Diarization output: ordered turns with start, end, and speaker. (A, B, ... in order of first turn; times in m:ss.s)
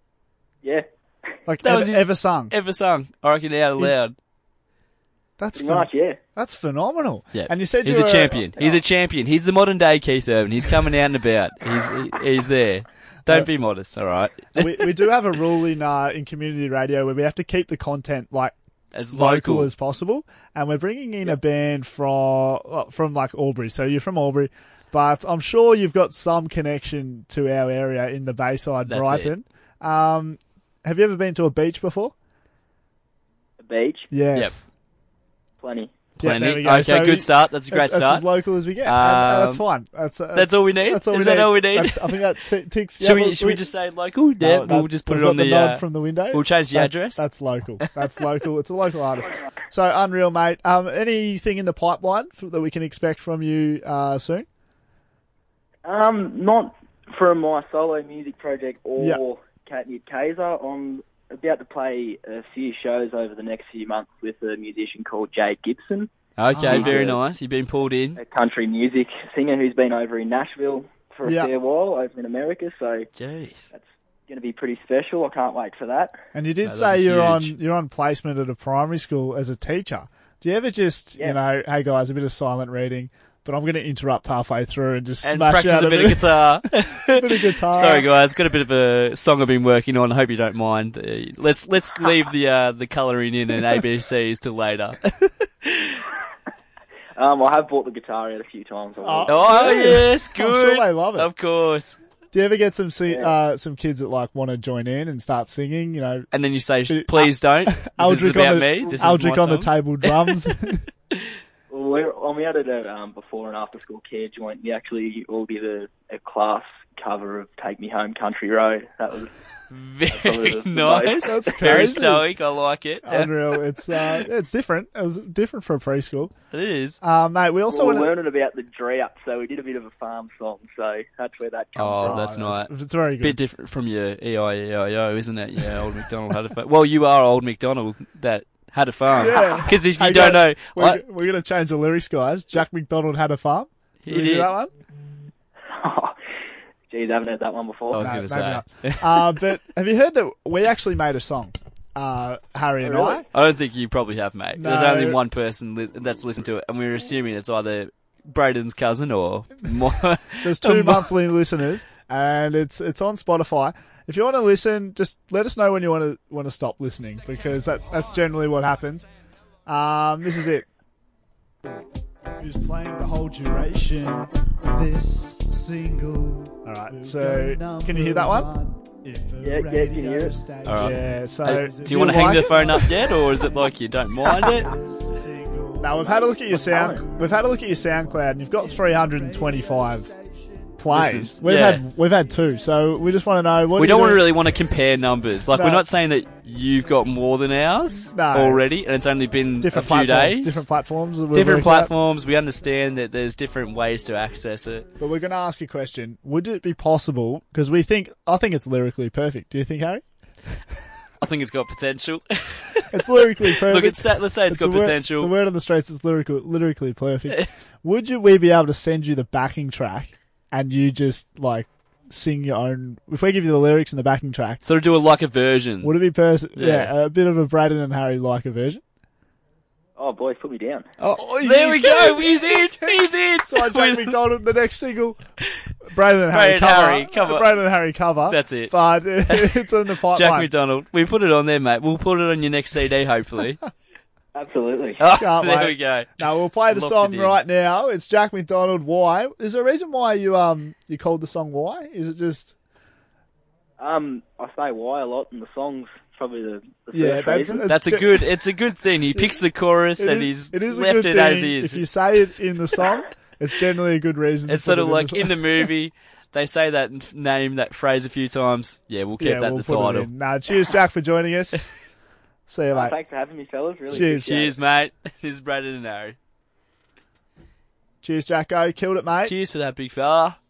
0:01.5-0:02.5 A
0:01.6-0:04.2 B
0:05.4-0:08.7 A
0:05.6-0:06.2 C
0:07.3-0:15.1 B
0:14.5-0:18.5 A
0:18.9-0:19.7 B
0:19.1-0:32.1 A
0:28.8-0:29.3 B
0:33.6-0:34.1 C
0:34.1-0:34.6 A
0:35.6-0:36.0 C
0:36.2-0:38.3 B
0:36.2-0:43.6 A
0:38.8-0:39.6 B
0:40.3-0:42.2 B
0:43.0-0:47.3 B
0:44.4-0:54.5 A
0:55.8-1:06.1 C
1:06.4-1:08.2 B
1:06.5-1:07.1 A
1:06.7-1:07.2 C
1:08.2-1:13.1 C
1:11.2-1:11.5 A
1:13.2-1:13.7 B
1:13.7-1:16.2 C
1:16.3-1:28.1 A
1:16.6-1:17.5 B
1:25.2-1:36.0 B
1:37.2-1:40.0 C
1:39.0-1:41.3 A
1:39.3-1:42.0 B
1:42.3-1:46.3 A
1:46.3-1:50.4 B
1:46.9-1:50.8 A
1:51.7-1:59.3 C
1:59.7-2:04.0 B
2:00.1-2:01.9 C
2:01.2-2:02.2 A
2:03.0-2:06.3 A
2:06.5-2:07.0 B
2:07.0-2:08.1 A
2:07.7-2:12.2 C
2:11.8-2:21.0 B
2:12.0-2:13.4 A
2:19.1-2:24.7 A
2:24.0-2:24.5 B
2:25.7-2:26.2 C
2:26.9-2:28.0 C
2:27.9-2:29.4 B
2:28.0-2:33.2 A
2:32.8-2:33.2 C
2:33.3-2:41.2 B
2:34.6-2:35.2 A
2:40.4-2:49.1 A
2:49.7-2:50.6 A
2:52.4-3:03.1 A
2:59.4-3:00.4 C
3:00.6-3:04.7 B
3:04.7-3:10.1 A
3:06.3-3:07.0 C
3:10.8-3:14.3 A
3:10.9-3:11.8 B
3:13.7-3:20.6 B
3:15.5-3:15.9 A
3:18.1-3:18.7 A
3:19.6-3:21.9 A
3:21.3-3:24.9 B
3:25.0-3:30.0 A
3:31.2-3:35.3 B
3:32.9-3:44.6 A
3:44.6-3:45.9 B
3:45.8-3:48.8 A
3:46.6-3:46.9 B
3:50.0-3:50.8 C
3:51.0-3:54.2 B
3:51.2-3:55.2 A
3:55.9-4:00.5 A
3:56.3-3:57.5 B
3:58.3-3:58.7 B
3:59.3-4:03.6 B
4:04.3-4:05.0 C
4:05.0-4:07.4 B
4:05.1-4:12.5 A
4:13.8-4:17.7 C
4:16.9-4:18.2 A
4:17.7-4:21.8 B
4:20.0-4:25.4 A
4:24.5-4:30.1 B
4:29.2-4:31.7 A
4:32.5-4:32.9 A
4:32.7-4:34.5 C
4:33.9-4:34.4 A
4:33.9-4:36.2 B
4:38.0-4:39.3 A
4:39.2-4:40.4 B